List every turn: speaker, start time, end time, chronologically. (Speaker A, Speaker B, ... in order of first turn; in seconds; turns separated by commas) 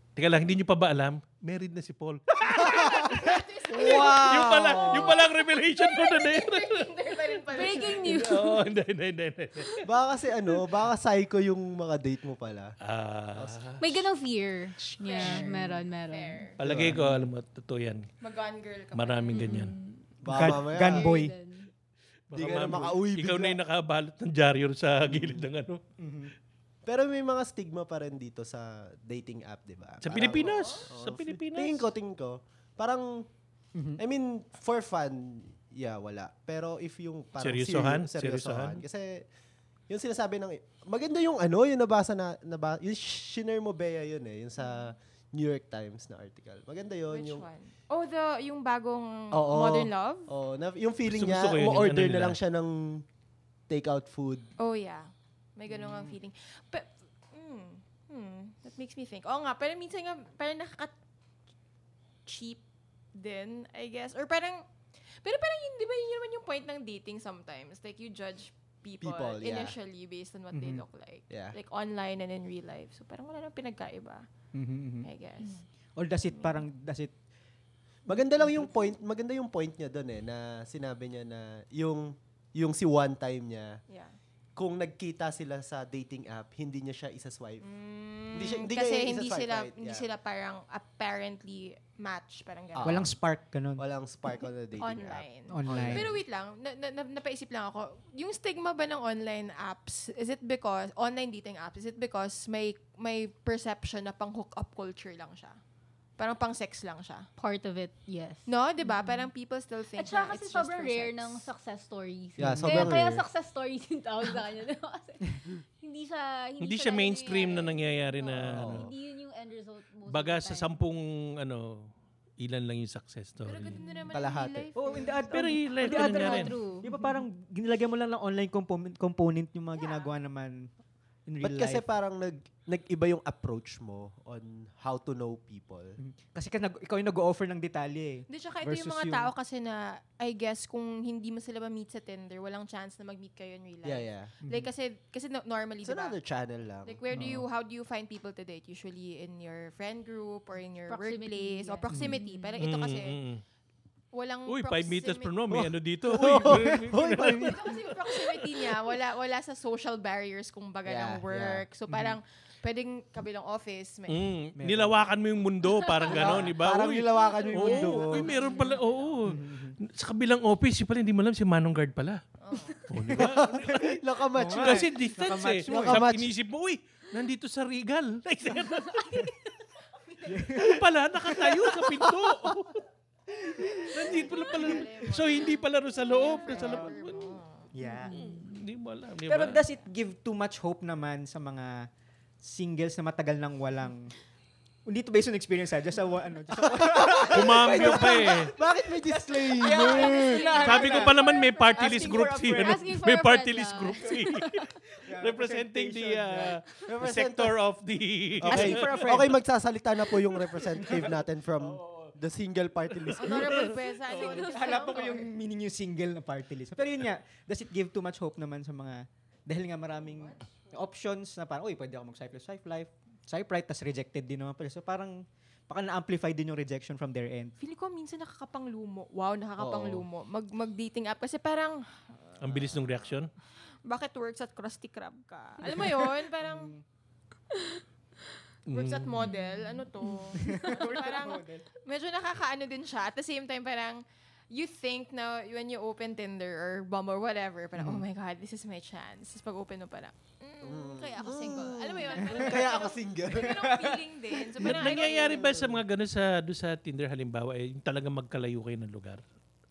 Speaker A: 0.2-6.9, Speaker B: 2.5-8.3, Speaker C: 2.6-5.2, Speaker D: 7.5-8.7, Speaker A: 7.9-9.9, Speaker C: 9.8-12.7, Speaker A: 12.8-13.9, Speaker C: 13.4-13.6, Speaker D: 13.8-16.5, Speaker A: 14.8-15.3, Speaker B: 15.0-16.6, Speaker A: 16.6-18.1, Speaker C: 16.6-17.2, Speaker B: 18.2-19.6, Speaker A: 18.9-19.8, Speaker D: 19.3-21.7, Speaker C: 20.2-21.1, Speaker E: 20.3-21.4, Speaker A: 22.3-25.8, Speaker C: 22.4-23.6, Speaker C: 25.1-25.5, Speaker E: 26.0-26.3, Speaker C: 26.9-33.3, Speaker A: 30.0-31.9, Speaker B: 30.2-30.9, Speaker C: 34.0-39.2, Speaker A: 37.4-38.8, Speaker C: 39.9-47.5, Speaker B: 47.1-50.3, Speaker C: 49.3-53.0, Speaker A: 51.1-52.4, Speaker C: 53.7-54.5, Speaker B: 54.6-60.9, Speaker E: 55.8-56.1, Speaker B: 62.3-62.6, Speaker B: 63.1-64.7, Speaker B: 65.2-74.3, Speaker C: 69.0-69.8, Speaker E: 70.5-70.8, Speaker C: 71.3-71.6, Speaker E: 74.5-75.1, Speaker B: 75.0-75.7, Speaker E: 76.0-77.1, Speaker B: 76.3-76.6, Speaker C: 78.1-83.8, Speaker B: 83.9-84.2, Speaker C: 84.6-87.6, Speaker B: 87.6-93.1, Speaker C: 88.3-90.0, Speaker C: 92.7-93.1, Speaker E: 92.8-93.8, Speaker C: 93.8-96.2, Speaker B: 94.8-105.6, Speaker E: 95.5-96.1, Speaker B: 106.2-107.3, Speaker D: 107.4-109.3, Speaker B: 108.5-111.4, Speaker D: 110.0-120.8, Speaker C: 112.4-113.2, Speaker E: 112.4-113.0, Speaker A: 116.6-118.9, Speaker C: 118.5-118.9, Speaker A: 120.1-123.8, Speaker B: 123.4-126.2, Speaker C: 124.1-124.7, Speaker E: 124.8-130.7, Speaker A: 125.3-126.6, Speaker D: 125.8-126.9, Speaker B: 129.8-130.1, Speaker E: 131.3-131.8, Speaker C: 131.4-136.0, Speaker E: 136.0-139.3, Speaker B: 138.3-146.2, Speaker C: 143.8-144.3, Speaker E: 144.4-144.7, Speaker C: 145.8-147.0, Speaker B: 146.8-153.2, Speaker E: 147.1-147.5, Speaker D: 150.9-152.6, Speaker E: 151.9-152.2, Speaker A: 152.6-153.4, Speaker B: 154.1-155.4, Speaker A: 154.5-157.6, Speaker C: 155.5-158.5, Speaker B: 157.4-164.3, Speaker C: 160.9-161.7, Speaker E: 161.9-162.2, Speaker A: 164.1-172.2, Speaker E: 164.6-165.0, Speaker D: 165.9-166.3, Speaker B: 165.9-166.4, Speaker C: 166.1-168.3, Speaker B: 167.3-169.2, Speaker D: 168.3-168.8, Speaker E: 169.2-169.8, Speaker B: 172.4-173.1, Speaker A: 172.9-179.5, Speaker C: 173.1-174.9, Speaker E: 174.3-176.1, Speaker C: 175.7-176.3, Speaker E: 180.2-180.8, Speaker A: 180.4-182.8, Speaker C: 183.5-183.9, Speaker A: 183.7-187.4, Speaker B: 184.0-187.7, Speaker E: 186.5-186.9, Speaker E: 187.7-188.2, Speaker D: 188.0-188.4, Speaker A: 188.1-189.6, Speaker E: 189.3-191.9, Speaker E: 192.4-194.1, Speaker E: 194.9-202.8, Speaker C: 196.6-200.7, Speaker A: 197.3-198.5, Speaker D: 199.8-204.7, Speaker B: 200.2-201.4, Speaker A: 200.6-209.3, Speaker E: 205.0-206.6, Speaker C: 206.9-207.6, Speaker E: 208.4-209.4, Speaker C: 208.4-213.8, Speaker A: 210.6-212.2, Speaker A: 213.0-214.6, Speaker B: 213.2-215.3, Speaker E: 214.2-227.6, Speaker D: 214.3-214.9, Speaker B: 227.6-233.0, Speaker C: 229.6-230.1, Speaker A: 232.4-233.3, Speaker B: 233.8-236.7, Speaker E: 235.7-236.8, Speaker A: 238.7-239.3, Speaker B: 238.7-255.6, Speaker D: 239.2-240.8, Speaker E: 240.3-241.7, Speaker E: 247.8-248.0, Speaker C: 250.6-253.9, Speaker E: 252.3-252.6, Speaker E: 253.5-253.9, Speaker A: 254.6-259.2, Speaker C: 254.6-255.8